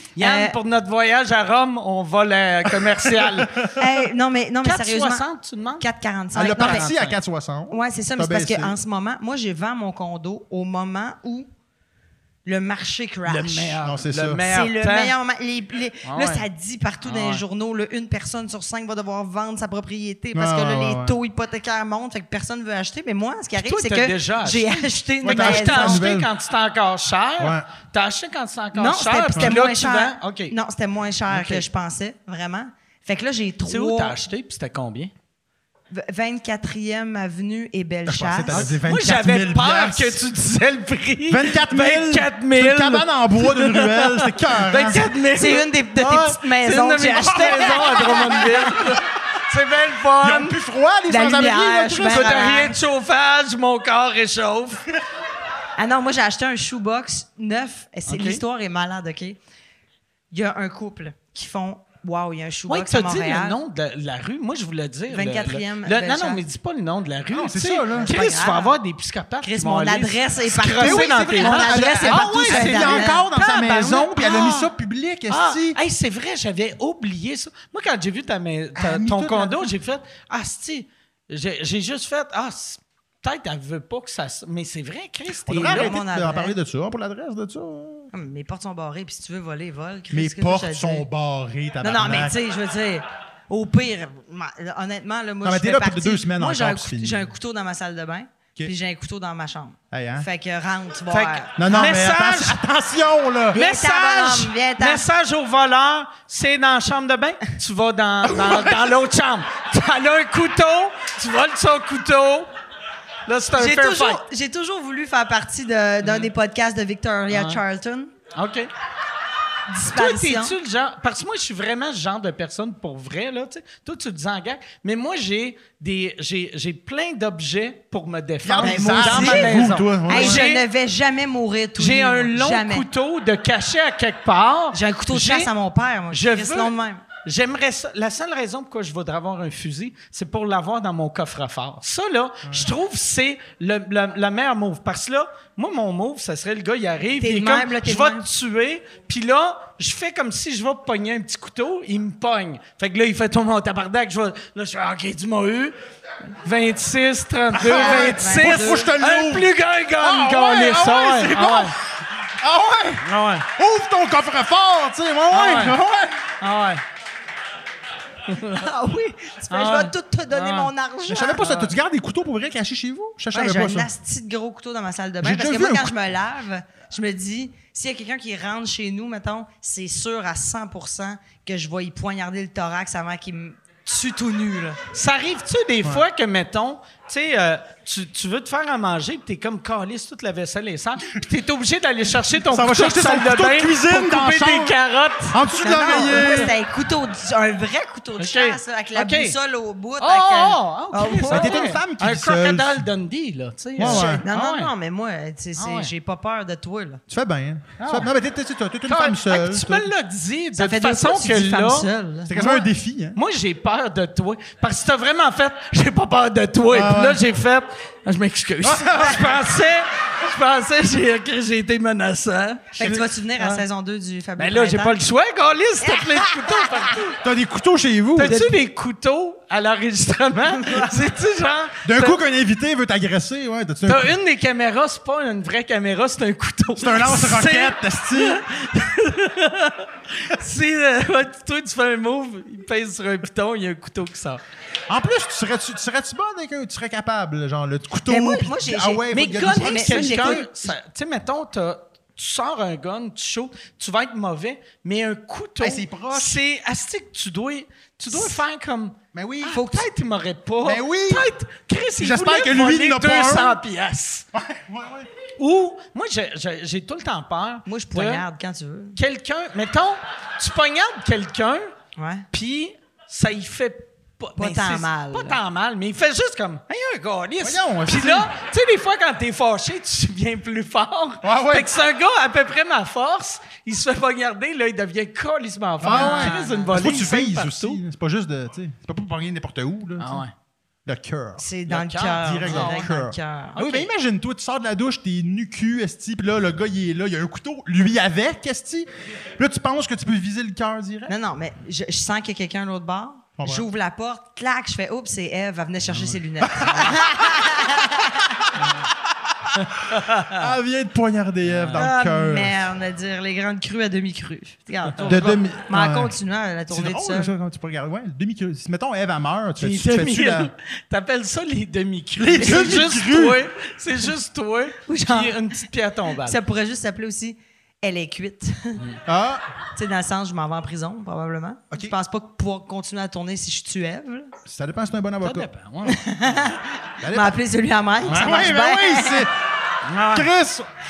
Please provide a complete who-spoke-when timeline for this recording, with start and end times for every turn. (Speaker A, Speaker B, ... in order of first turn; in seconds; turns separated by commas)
Speaker A: 0.1-3.7, Speaker B: 0.2-0.6, Speaker C: 3.1-3.5, Speaker B: 3.7-5.2, Speaker A: 4.6-5.9, Speaker B: 5.8-6.9, Speaker C: 6.3-8.7, Speaker A: 6.6-7.2, Speaker B: 7.7-11.5, Speaker B: 12.4-13.8, Speaker A: 13.2-15.1, Speaker C: 13.8-14.4, Speaker B: 14.4-26.1, Speaker A: 16.0-16.4, Speaker A: 17.0-17.4, Speaker C: 20.3-21.2, Speaker A: 23.6-30.5, Speaker C: 25.2-26.3, Speaker C: 27.4-27.7, Speaker B: 28.7-34.1, Speaker A: 31.3-31.6, Speaker A: 33.6-35.1, Speaker B: 35.9-38.7, Speaker C: 38.1-40.2, Speaker A: 38.5-50.6, Speaker C: 41.3-45.0, Speaker B: 45.3-49.0, Speaker C: 47.1-48.8, Speaker C: 50.2-52.5, Speaker B: 51.1-52.8, Speaker A: 52.0-54.9, Speaker B: 55.8-59.4, Speaker A: 58.1-58.4, Speaker B: 60.3-63.6, Speaker A: 62.7-74.5, Speaker B: 65.1-66.4, Speaker C: 67.3-68.1, Speaker B: 68.0-68.8, Speaker B: 69.4-74.6, Speaker C: 70.8-75.8, Speaker A: 75.3-85.9, Speaker C: 78.8-79.7, Speaker C: 85.5-88.1, Speaker B: 85.5-86.5, Speaker B: 88.1-91.0, Speaker C: 90.1-92.4, Speaker B: 91.8-102.0, Speaker C: 95.4-97.3, Speaker C: 99.9-100.3, Speaker A: 101.1-102.6, Speaker C: 101.6-103.6, Speaker A: 103.5-112.5, Speaker B: 103.5-105.1, Speaker C: 108.3-108.8, Speaker A: 113.3-114.2, Speaker B: 113.5-118.1, Speaker A: 116.0-116.3, Speaker A: 117.3-117.6, Speaker A: 118.3-118.7, Speaker B: 119.7-120.5, Speaker A: 119.8-130.6, Speaker C: 128.4-130.4, Speaker B: 128.6-132.9, Speaker A: 131.8-135.5, Speaker B: 134.7-137.0, Speaker A: 136.1-155.7, Speaker C: 142.4-142.7, Speaker B: 147.2-148.2, Speaker A: 156.4-161.7, Speaker C: 157.5-166.3, Speaker B: 157.6-158.9, Speaker A: 163.0-163.4, Speaker A: 165.3-165.8, Speaker A: 166.4-166.8, Speaker A: 168.3-168.6, Speaker B: 168.4-171.7, Speaker A: 169.5-170.7, Speaker C: 171.1-173.9, Speaker B: 173.3-184.8, Speaker C: 175.2-175.9, Speaker A: 184.9-196.5, Speaker C: 192.5-194.7, Speaker C: 195.3-196.5, Speaker B: 195.5-201.7, Speaker A: 198.2-199.3, Speaker A: 200.0-204.7, Speaker C: 201.2-202.9, Speaker C: 203.8-204.2, Speaker B: 203.8-207.0, Speaker A: 205.6-205.9, Speaker C: 207.1-209.9, Speaker A: 207.8-208.1, Speaker A: 208.9-212.5, Speaker B: 210.6-212.6, Speaker C: 212.3-213.2, Speaker A: 213.1-223.6, Speaker C: 216.7-217.2, Speaker C: 218.6-219.4, Speaker B: 222.8-225.0, Speaker C: 222.8-223.0, Speaker A: 224.4-227.2, Speaker B: 225.8-226.9, Speaker C: 227.2-228.4, Speaker A: 228.2-232.2, Speaker B: 228.2-228.5, Speaker B: 230.6-230.9, Speaker C: 231.8-234.1, Speaker A: 233.8-244.4, Speaker C: 236.8-238.4, Speaker C: 244.9-250.5, Speaker B: 248.1-250.5, Speaker A: 249.1-264.3, Speaker C: 255.6-256.4, Speaker C: 259.1-259.6, Speaker B: 259.5-259.9, Speaker C: 260.6-261.3, Speaker C: 262.0-263.6, Speaker C: 264.3-265.1, Speaker A: 265.4-268.2, Speaker B: 267.7-269.0, Speaker A: 268.9-271.7, Speaker B: 271.9-272.2, Speaker A: 272.3-287.8, Speaker B: 274.4-275.4, Speaker C: 277.4-278.3, Speaker C: 281.2-281.7, Speaker B: 285.8-287.0, Speaker C: 285.8-290.2, Speaker A: 290.0-290.3, Speaker C: 290.8-291.4, Speaker B: 291.4-293.8, Speaker A: 291.7-292.9, Speaker C: 292.2-298.9, Speaker A: 293.6-293.8, Speaker C: 299.4-301.1, Speaker B: 301.1-308.5, Speaker C: 303.4-303.6, Speaker C: 306.0-307.4, Speaker A: 306.7-306.9, Speaker A: 309.6-310.4, Speaker C: 309.9-312.6, Speaker A: 311.6-312.0, Speaker B: 311.7-317.3, Speaker A: 315.0-315.4, Speaker C: 315.0-316.1, Speaker C: 316.7-320.5, Speaker A: 319.6-326.4, Speaker C: 322.2-323.4, Speaker B: 324.9-325.5, Speaker B: 326.1-328.8, Speaker C: 329.1-329.4, Speaker B: 329.8-334.3, Speaker C: 334.4-335.5, Speaker A: 335.2-336.5, Speaker B: 335.9-339.3, Speaker C: 337.0-337.4, Speaker A: 338.1-338.4, Speaker C: 338.1-339.3, Speaker A: 339.9-340.3, Speaker C: 340.1-340.7